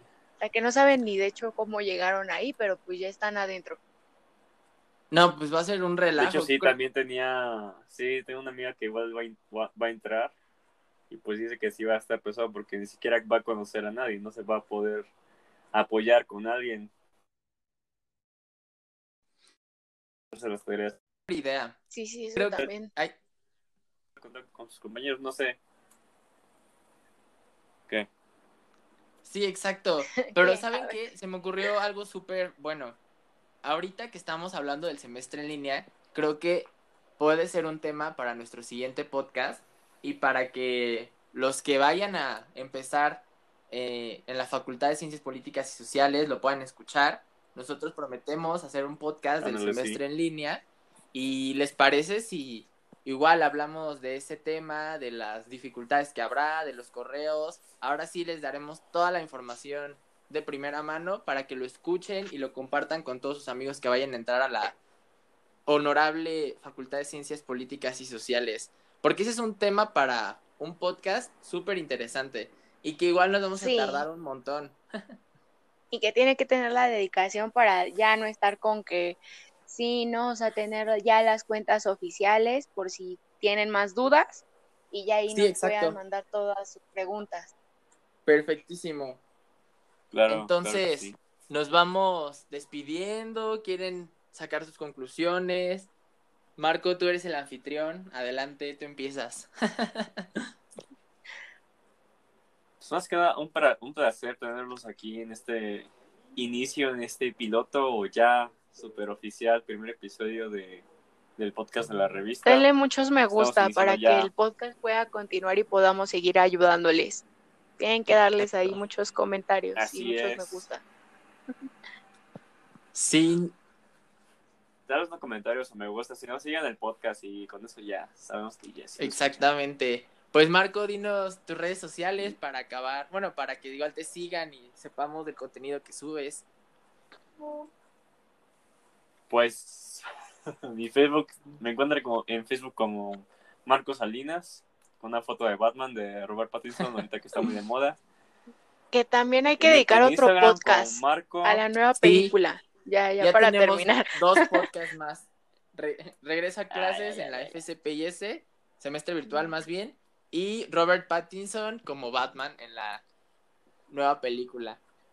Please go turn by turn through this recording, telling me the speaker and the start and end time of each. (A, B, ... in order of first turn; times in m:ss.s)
0:00.4-0:03.8 A
0:05.1-0:06.8 B
0:06.2-0:10.3 C
0:11.1-0:15.1 C
0:15.7-0:16.9 C
0:20.3-0:21.0 C
0:21.3-0:21.8 B
0:21.9-0:22.9 A
0:22.4-0:23.2 B
0:24.2-0:25.6 C
0:29.2-0:33.0 B
0:30.3-0:31.0 A
0:33.6-1:04.8 B
0:49.4-0:50.0 C
1:05.6-1:14.8 B
1:13.6-1:14.0 A
1:15.9-1:27.5 A
1:25.3-1:26.0 B
1:28.2-1:29.2 B
1:30.1-1:31.2 C
1:30.3-1:35.9 B
1:36.6-1:40.3 B
1:42.8-1:50.8 C
1:51.4-1:52.6 C
1:52.4-1:57.2 A
1:53.3-1:54.3 C
1:57.8-2:00.8 A
1:59.8-2:00.6 C
2:02.9-2:03.5 B
2:04.9-2:09.4 C
2:09.0-2:16.4 B
2:19.3-2:20.0 C
2:20.7-2:28.0 C
2:28.9-2:34.7 A
2:29.6-2:31.6 C
2:32.0-2:32.3 B
2:33.2-2:43.0 B
2:36.7-2:37.3 C
2:43.9-2:44.8 B